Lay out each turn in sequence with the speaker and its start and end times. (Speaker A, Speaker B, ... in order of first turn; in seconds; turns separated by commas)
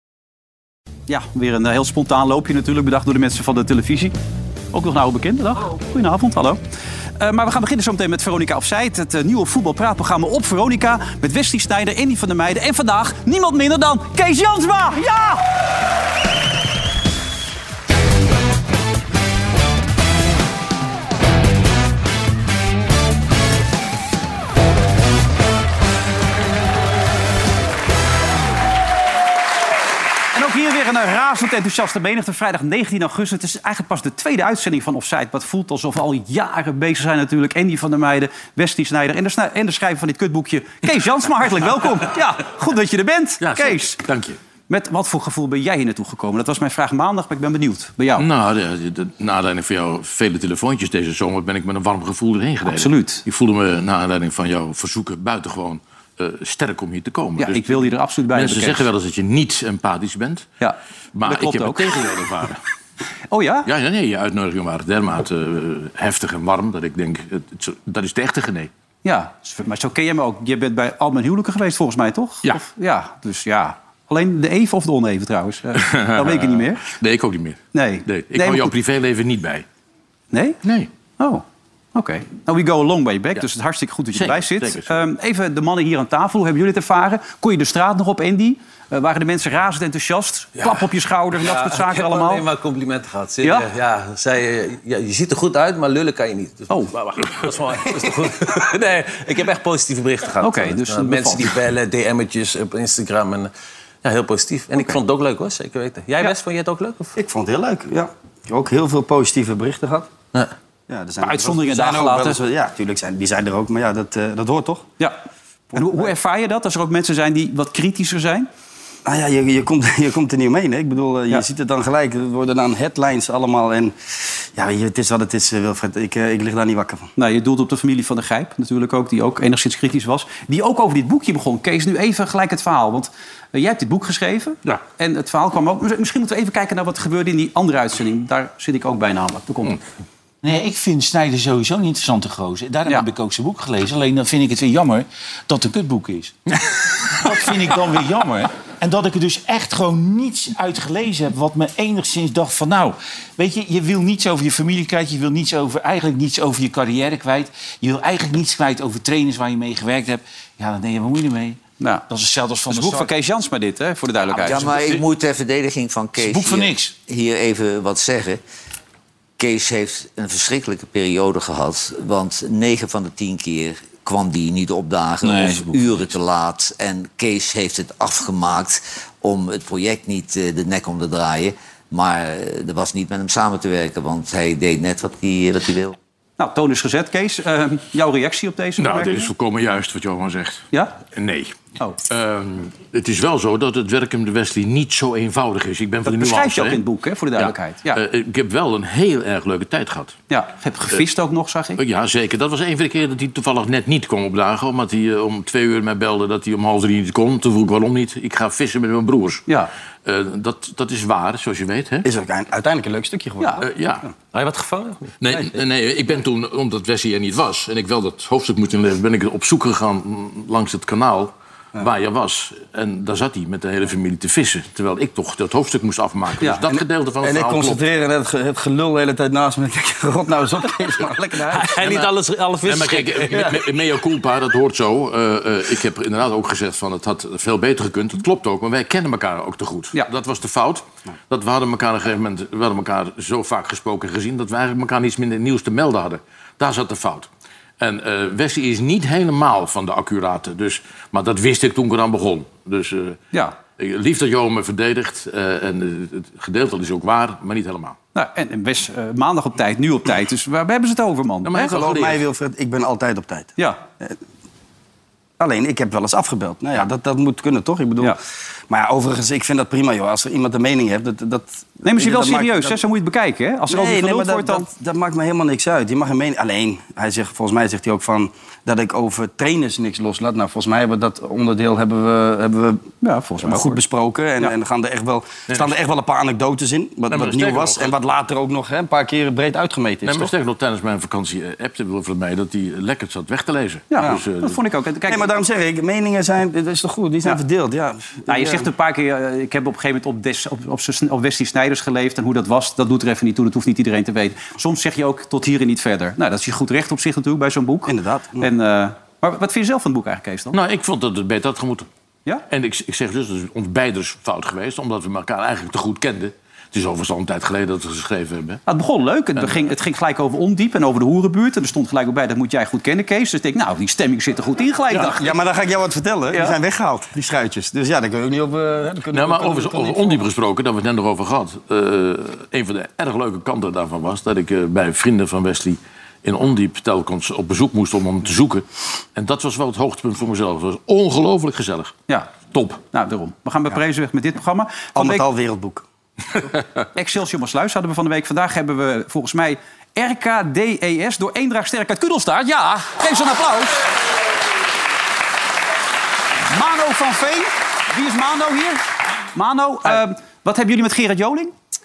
Speaker A: 1.1-4.1, Speaker A: 4.7-6.6, Speaker A: 7.2-15.4, Speaker A: 30.3-44.0, Speaker B: 43.4-44.4, Speaker A: 44.7-48.3, Speaker B: 48.2-60.5, Speaker A: 52.6-53.2, Speaker A: 57.4-58.9, Speaker A: 60.6-61.9, Speaker B: 61.1-62.6, Speaker A: 63.3-63.7, Speaker B: 63.7-68.7, Speaker A: 69.0-76.8, Speaker B: 75.8-79.6, Speaker A: 77.7-78.7, Speaker A: 80.3-80.6, Speaker B: 80.6-80.9, Speaker A: 81.2-81.4, Speaker A: 81.9-92.4, Speaker B: 84.1-84.9, Speaker C: 91.4-103.5, Speaker A: 93.4-93.7, Speaker A: 100.4-101.5, Speaker C: 104.0-107.1, Speaker D: 107.2-110.1, Speaker D: 110.9-114.9, Speaker A: 111.2-112.4, Speaker A: 115.7-118.5, Speaker D: 119.0-124.0, Speaker D: 124.5-127.1, Speaker A: 127.2-139.8, Speaker E: 140.4-146.4, Speaker E: 147.1-163.1, Speaker A: 161.8-162.1, Speaker A: 162.7-164.9, Speaker F: 164.4-168.4, Speaker E: 164.5-165.0, Speaker E: 166.2-167.0, Speaker F: 169.4-185.9, Speaker E: 175.2-176.0, Speaker A: 186.4-189.3, Speaker B: 188.8-191.5, Speaker A: 190.7-191.0, Speaker B: 192.1-196.8, Speaker A: 196.1-198.0, Speaker B: 197.4-200.1, Speaker A: 200.3-201.8, Speaker B: 201.8-209.4, Speaker B: 210.0-212.1, Speaker D: 212.0-214.1, Speaker B: 213.6-214.1, Speaker C: 214.3-215.1, Speaker B: 215.2-227.8, Speaker D: 226.7-231.9, Speaker C: 231.5-233.5, Speaker B: 232.6-247.3, Speaker B: 247.8-253.2, Speaker B: 253.8-258.0, Speaker A: 258.1-261.7, Speaker B: 261.4-262.2, Speaker D: 261.6-264.1, Speaker D: 265.4-268.1, Speaker D: 268.7-272.8, Speaker A: 271.8-274.7, Speaker D: 273.7-282.8, Speaker A: 283.0-283.8, Speaker D: 283.4-290.3, Speaker B: 287.1-287.9, Speaker B: 290.1-294.6, Speaker A: 293.9-295.3, Speaker D: 295.1-298.7, Speaker A: 298.3-310.6, Speaker D: 307.9-308.5, Speaker B: 310.5-311.9, Speaker B: 312.5-318.6, Speaker A: 318.7-325.3, Speaker D: 324.9-330.3, Speaker A: 326.3-326.6, Speaker B: 329.1-341.9, Speaker A: 342.1-345.2, Speaker D: 344.9-345.8, Speaker A: 346.9-353.8, Speaker A: 356.5-361.5